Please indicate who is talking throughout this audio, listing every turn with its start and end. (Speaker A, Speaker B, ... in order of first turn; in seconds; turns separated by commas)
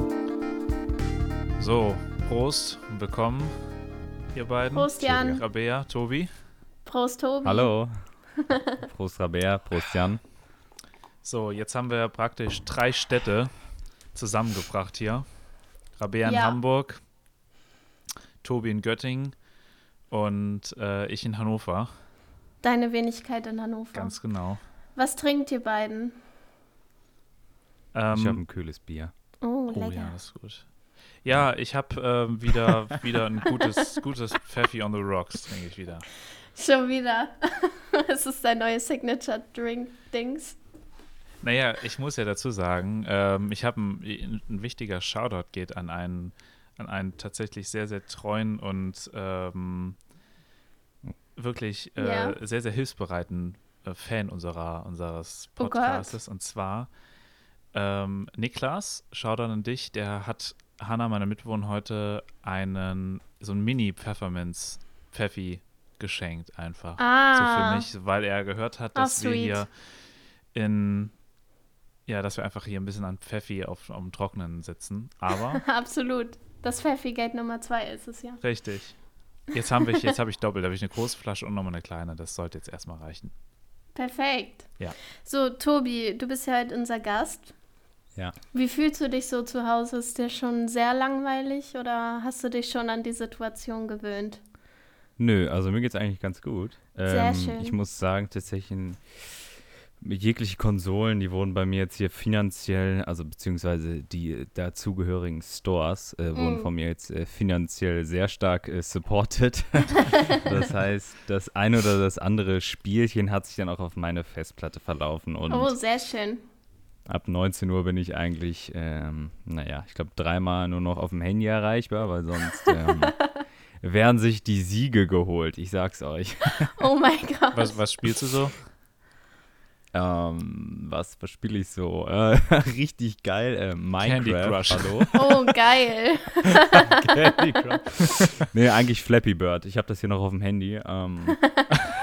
Speaker A: 1.6-3.5, Speaker A: 4.3-6.3, Speaker B: 4.7-5.4, Speaker B: 6.8-7.7, Speaker C: 7.4-7.9, Speaker B: 8.4-8.8, Speaker C: 8.8-10.2, Speaker A: 11.2-13.5, Speaker A: 14.1-15.2, Speaker A: 16.0-17.0, Speaker B: 16.2-16.6, Speaker A: 18.4-19.3, Speaker A: 20.1-21.9, Speaker B: 22.6-24.1, Speaker A: 23.9-24.6, Speaker B: 24.9-26.2, Speaker A: 27.9-28.4, Speaker C: 28.1-29.1, Speaker B: 29.4-30.1, Speaker A: 29.7-30.6, Speaker A: 31.2-36.0, Speaker B: 36.5-40.6, Speaker A: 41.4-50.0, Speaker A: 51.4-56.9, Speaker B: 52.0-52.4, Speaker B: 55.6-56.2, Speaker A: 57.7-69.7, Speaker B: 67.0-67.8, Speaker B: 68.9-69.7, Speaker A: 70.5-71.1, Speaker A: 72.1-75.6, Speaker B: 75.5-78.4, Speaker A: 78.4-79.0, Speaker A: 79.5-83.3, Speaker B: 83.9-84.7, Speaker B: 85.2-87.5, Speaker B: 88.5-94.4, Speaker C: 95.2-115.7, Speaker B: 97.1-97.8, Speaker B: 106.3-106.7, Speaker B: 115.5-116.4, Speaker C: 117.1-123.2, Speaker B: 122.6-123.4, Speaker C: 123.8-126.8, Speaker B: 126.7-127.8, Speaker A: 127.5-128.6, Speaker C: 129.9-135.4, Speaker A: 134.0-135.2, Speaker B: 135.1-137.2, Speaker C: 136.5-141.4, Speaker A: 137.7-138.3, Speaker B: 141.4-141.7